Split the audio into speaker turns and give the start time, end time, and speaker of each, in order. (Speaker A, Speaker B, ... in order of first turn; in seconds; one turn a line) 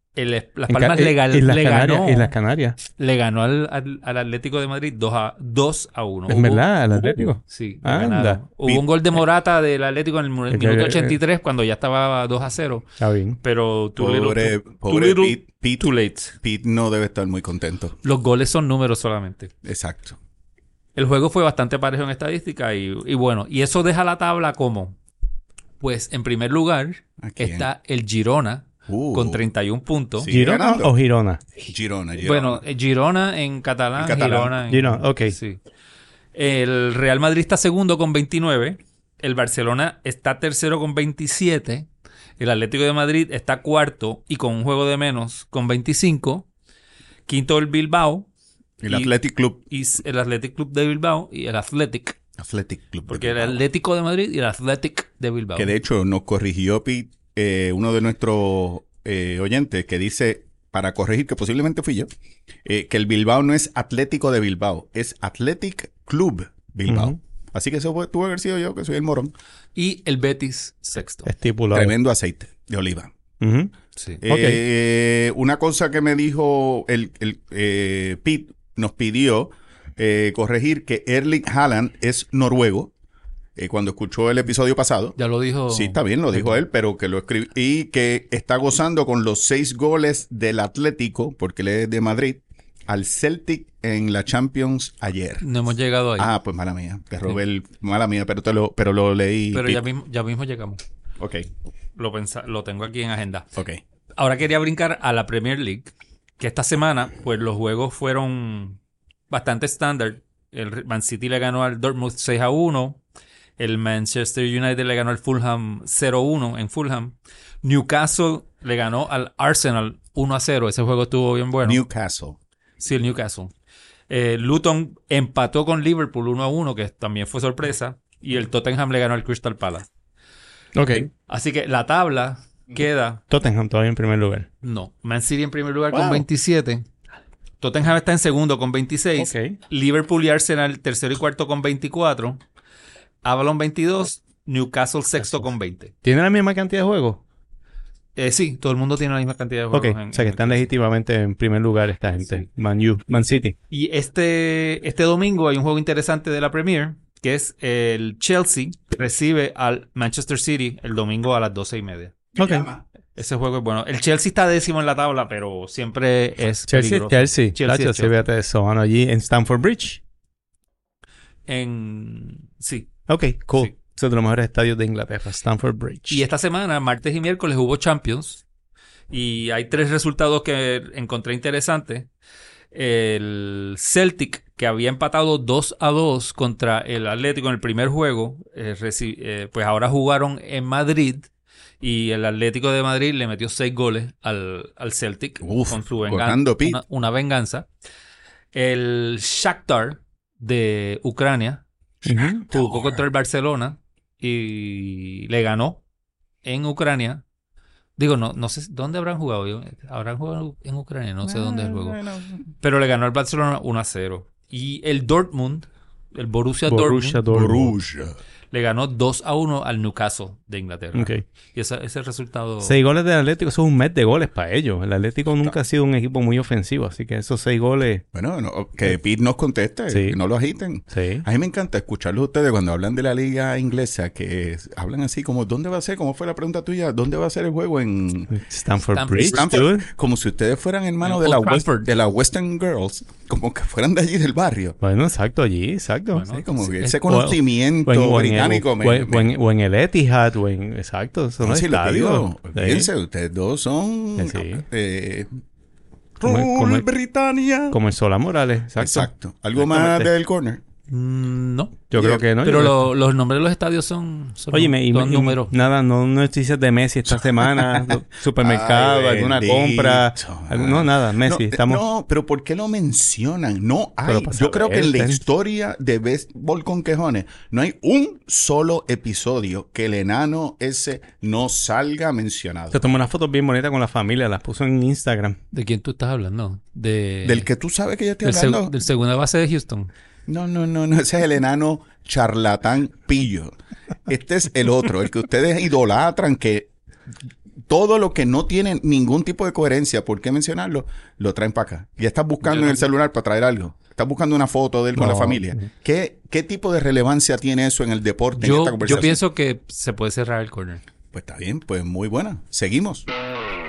Speaker A: 0.2-2.3
Speaker B: 0.7-2.8
Speaker A: 2.9-12.9
Speaker B: 6.3-8.4
Speaker B: 10.5-11.2
Speaker B: 13.0-13.4
Speaker A: 13.4-16.3
Speaker C: 14.0-17.9
Speaker A: 18.0-19.5
Speaker C: 19.6-20.2
Speaker A: 21.0-25.0
Speaker A: 25.8-30.3
Speaker C: 27.2-27.7
Speaker C: 28.9-29.4
Speaker C: 30.2-31.0
Speaker B: 30.3-31.4
Speaker C: 31.7-32.6
Speaker A: 32.2-35.6
Speaker C: 34.0-34.6
Speaker B: 34.7-35.4
Speaker A: 36.4-41.9
Speaker A: 42.4-46.5
Speaker A: 47.3-48.3
Speaker C: 48.8-49.6
Speaker A: 49.7-52.2
Speaker C: 52.4-53.6
Speaker A: 53.1-55.7
Speaker C: 55.6-62.1
Speaker C: 62.7-69.3
Speaker B: 66.9-67.2
Speaker A: 69.8-71.3
Speaker B: 71.3-71.9
Speaker C: 71.7-73.1
Speaker B: 73.4-73.7
Speaker C: 74.2-82.9
Speaker B: 74.3-74.6
Speaker C: 83.6-85.2
Speaker A: 85.2-86.6
Speaker C: 85.7-95.5
Speaker A: 95.4-96.3
Speaker C: 96.2-99.8
Speaker A: 99.5-100.8
Speaker C: 101.2-101.5
Speaker A: 102.0-103.5
Speaker C: 103.6-103.8
Speaker A: 104.2-108.8
Speaker A: 109.3-113.0
Speaker A: 113.6-121.8
Speaker C: 121.6-122.4
Speaker A: 122.8-123.5
Speaker A: 124.1-129.9
Speaker B: 130.8-131.1
Speaker A: 131.2-133.2
Speaker B: 133.3-134.5
Speaker A: 134.6-136.8
Speaker B: 135.9-136.3
Speaker A: 137.6-142.4
Speaker B: 139.2-139.6
Speaker A: 143.2-145.9
Speaker B: 146.0-147.2
Speaker A: 148.2-150.7
Speaker B: 149.7-153.6
Speaker A: 153.7-162.2
Speaker B: 162.4-162.7
Speaker C: 162.4-162.8
Speaker A: 163.2-168.1
Speaker B: 166.7-170.0
Speaker A: 171.5-172.9
Speaker B: 173.1-176.2
Speaker A: 176.1-178.4
Speaker A: 179.1-182.1
Speaker A: 182.7-191.3
Speaker A: 191.8-197.7
Speaker C: 195.4-196.8
Speaker A: 198.5-201.6
Speaker B: 202.1-202.4
Speaker C: 202.1-203.0
Speaker A: 202.5-205.8
Speaker A: 206.4-207.2
Speaker A: 208.0-212.0
Speaker C: 211.3-212.4
Speaker A: 212.6-217.2
Speaker B: 216.7-217.8
Speaker C: 217.3-218.2
Speaker A: 218.5-222.8
Speaker B: 220.9-221.2
Speaker B: 222.6-228.0
Speaker C: 228.1-238.3
Speaker B: 229.9-230.2
Speaker B: 230.9-231.2
Speaker B: 238.3-239.9
Speaker A: 238.9-239.6
Speaker C: 239.3-244.8
Speaker A: 241.0-241.9
Speaker B: 244.8-246.3
Speaker A: 246.1-247.1
Speaker C: 246.3-249.3
Speaker B: 247.1-252.9
Speaker C: 251.4-255.3
Speaker B: 254.2-254.6
Speaker C: 256.2-257.8
Speaker B: 256.2-256.9
Speaker B: 257.7-260.1
Speaker C: 258.8-260.6
Speaker A: 260.9-261.9
Speaker B: 261.9-262.9
Speaker C: 262.0-262.2
Speaker A: 262.4-265.5
Speaker B: 264.5-271.8
Speaker C: 267.4-282.8
Speaker B: 274.1-275.2
Speaker B: 282.7-285.4
Speaker A: 285.5-287.5
Speaker C: 287.2-288.7
Speaker A: 288.2-289.9
Speaker C: 290.3-293.5
Speaker C: 294.1-296.7
Speaker C: 297.7-309.2
Speaker A: 302.4-302.9
Speaker B: 305.0-305.5
Speaker A: 308.4-310.8
Speaker C: 311.1-313.1